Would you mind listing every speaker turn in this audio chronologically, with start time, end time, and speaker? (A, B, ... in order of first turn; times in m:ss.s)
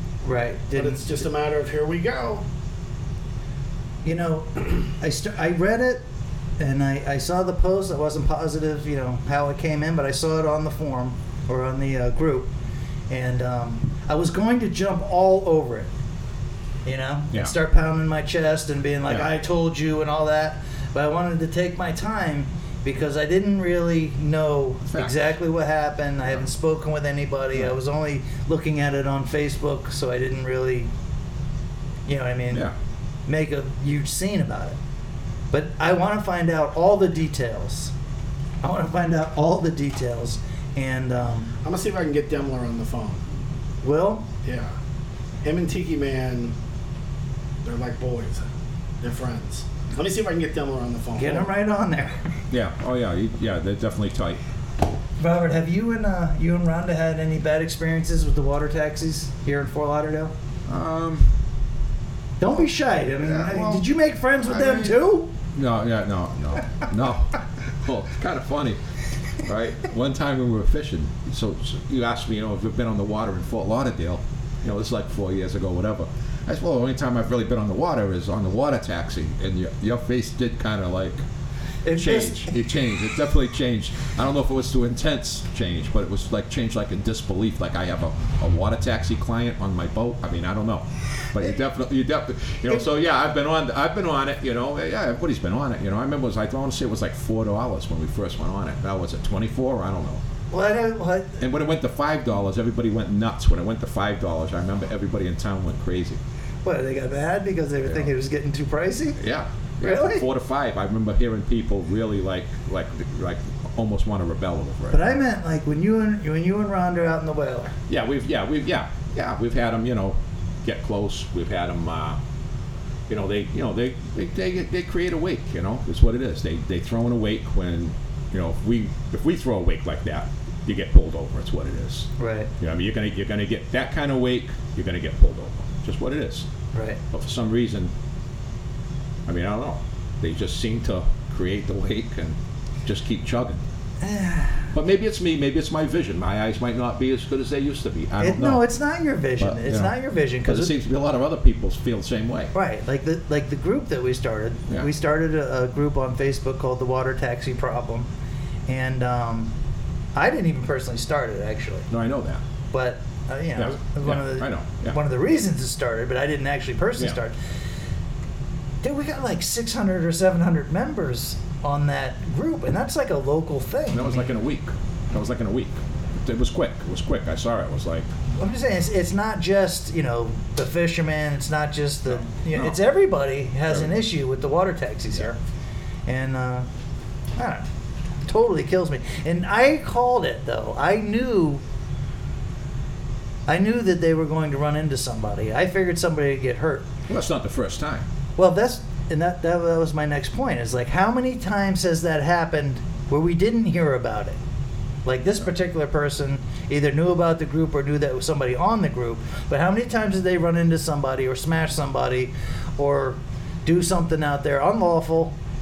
0:00.2-0:01.0 A
0:00.8-0:02.5 B
0:04.0-0:06.0 A
0:06.6-0:12.5 A
0:13.1-0:15.9 A
0:16.8-0:30.9 A
0:32.1-0:32.7 A
0:33.3-0:34.8 A
0:35.5-0:37.9 A
0:38.6-0:41.5 A
0:41.6-0:43.2 B
0:43.8-0:44.3 A
0:44.4-0:44.7 B
0:45.4-0:46.6 B
0:47.6-0:48.5 B
0:49.0-0:51.5 B
0:51.2-0:52.2 A
0:52.5-0:54.4 C
0:55.2-1:00.3 A
1:00.7-1:01.3 C
1:02.4-1:05.3 A
1:03.2-1:03.8 C
1:04.4-1:05.0 C
1:05.5-1:08.8 C
1:09.4-1:21.2 C
1:21.8-1:22.6 A
1:22.0-1:40.2 C
1:40.5-1:41.4 A
1:41.4-1:46.2 C
1:46.6-1:49.2 A
1:49.2-1:55.2 C
1:49.8-1:50.2 A
1:54.9-1:57.8 A
1:57.9-2:02.2 C
2:03.1-2:16.5 C
2:12.2-2:12.5 A
2:16.7-2:17.0 A
2:17.1-2:17.9 C
2:19.3-2:23.6 C
2:24.0-2:24.7 A
2:24.7-2:28.6 C
2:28.2-2:30.7 A
2:29.4-2:29.9 C
2:30.4-2:32.5 C
2:32.5-2:38.1 A
2:38.7-2:39.5 A
2:40.2-2:41.9 A
2:41.9-2:42.4 C
2:42.7-2:47.4 A
2:43.6-2:45.0 C
2:48.8-2:54.3 A
2:53.9-2:58.1 C
2:58.4-3:05.4 A
3:02.1-3:02.8 C
3:03.7-3:04.0 C
3:06.1-3:06.7 A
3:07.4-3:07.7 A
3:08.2-3:11.6 A
3:13.5-3:16.9 A
3:17.1-3:18.1 C
3:18.4-3:24.4 A
3:25.0-3:35.3 A